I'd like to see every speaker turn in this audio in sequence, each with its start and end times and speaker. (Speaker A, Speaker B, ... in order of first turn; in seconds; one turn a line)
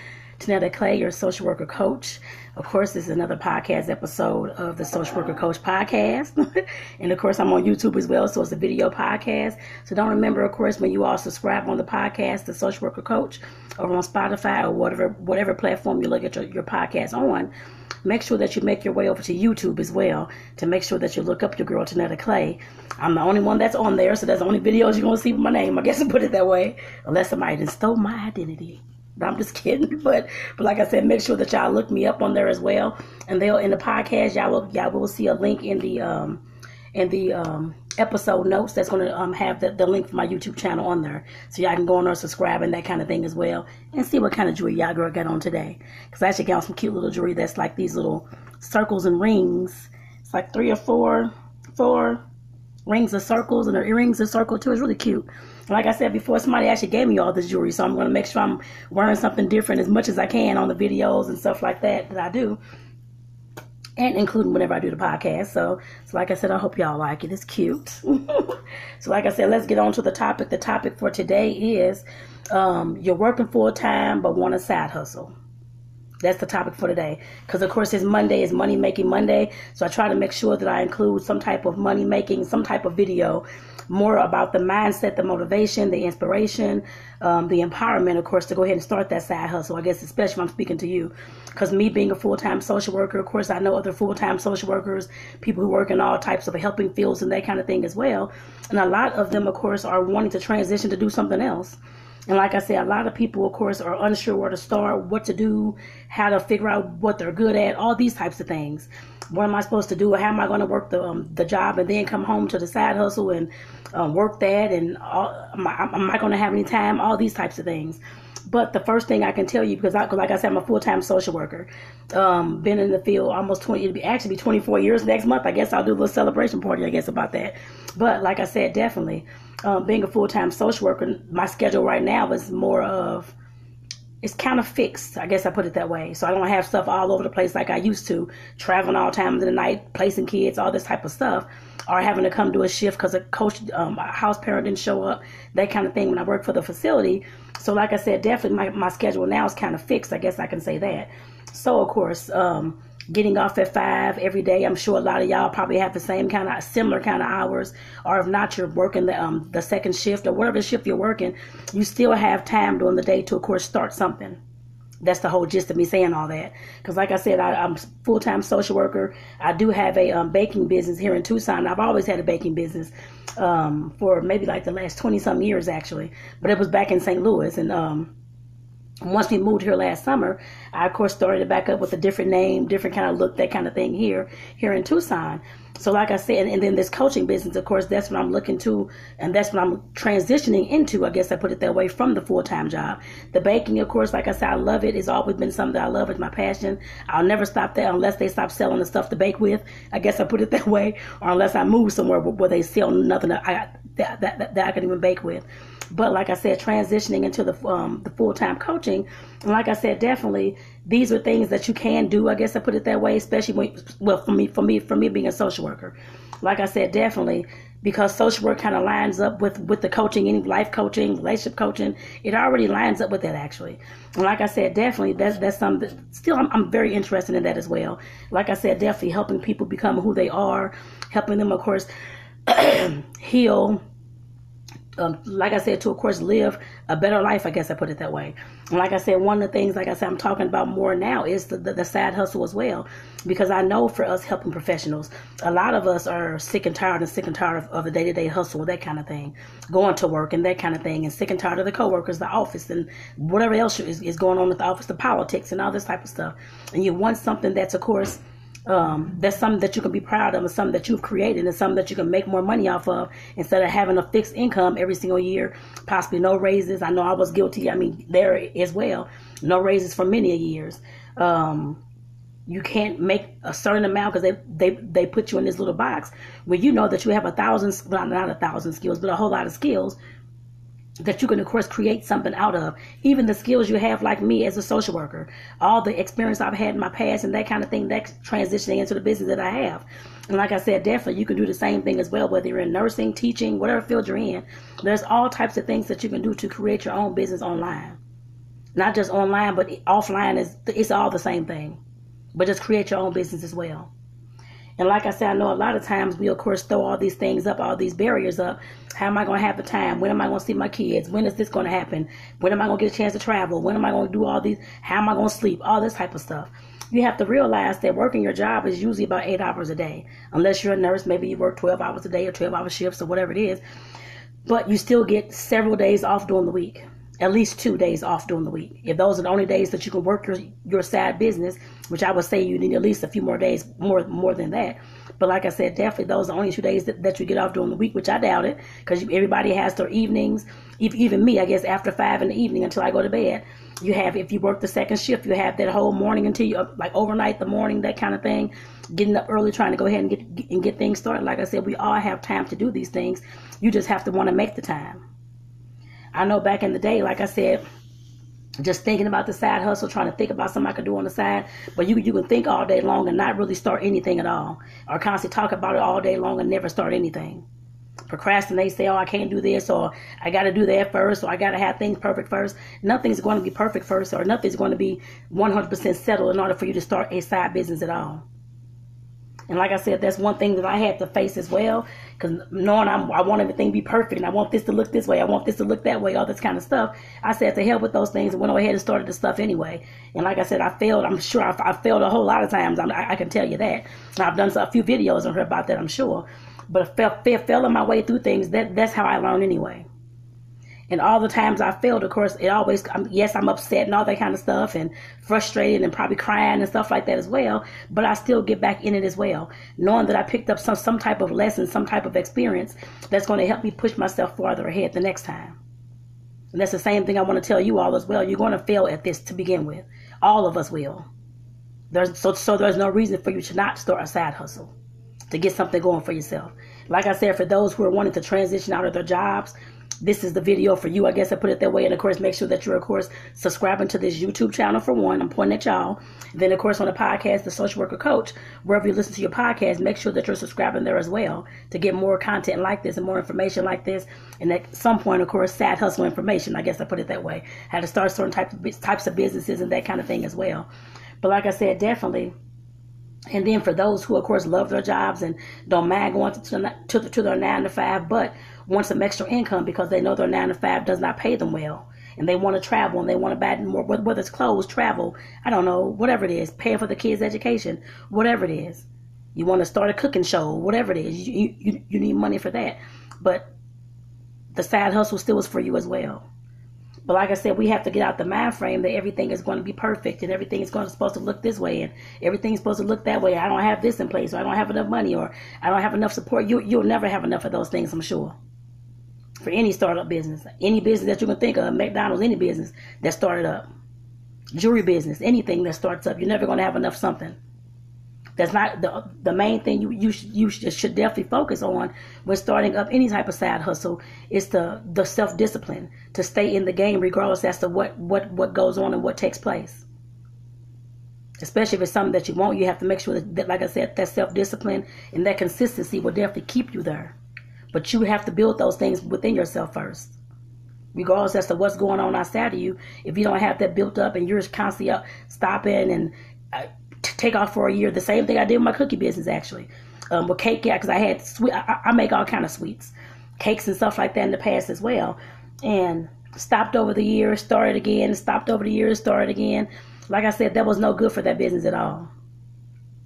Speaker A: 0.4-6.3
Speaker A: 7.0-17.5
Speaker A: 18.0-36.4
Speaker A: 36.9-52.2
Speaker A: 52.9-62.6
Speaker A: 64.0-75.3
Speaker A: 76.2-133.3
Speaker A: 134.2-164.4
Speaker A: 165.0-178.1
Speaker A: 179.0-231.9
Speaker A: 232.5-233.8
Speaker A: 235.0-271.8
Speaker A: 272.5-280.0
Speaker A: 281.0-298.0
Speaker A: 298.8-301.8
Speaker A: 302.3-303.9
Speaker A: 304.8-323.6
Speaker A: 324.4-355.0
Speaker A: 356.1-357.6
Speaker A: 358.6-367.4
Speaker A: 368.1-378.2
Speaker A: 379.5-399.9
Speaker A: 400.9-415.6
Speaker A: 416.5-421.1
Speaker A: 421.9-424.7
Speaker A: 425.3-450.7
Speaker A: 451.2-452.3
Speaker A: 453.3-473.5
Speaker A: 474.5-476.2
Speaker A: 477.1-488.4
Speaker A: 489.4-493.7
Speaker A: 494.5-497.4
Speaker A: 498.4-509.9
Speaker A: 511.4-517.1
Speaker A: 517.7-520.1
Speaker A: 520.9-542.1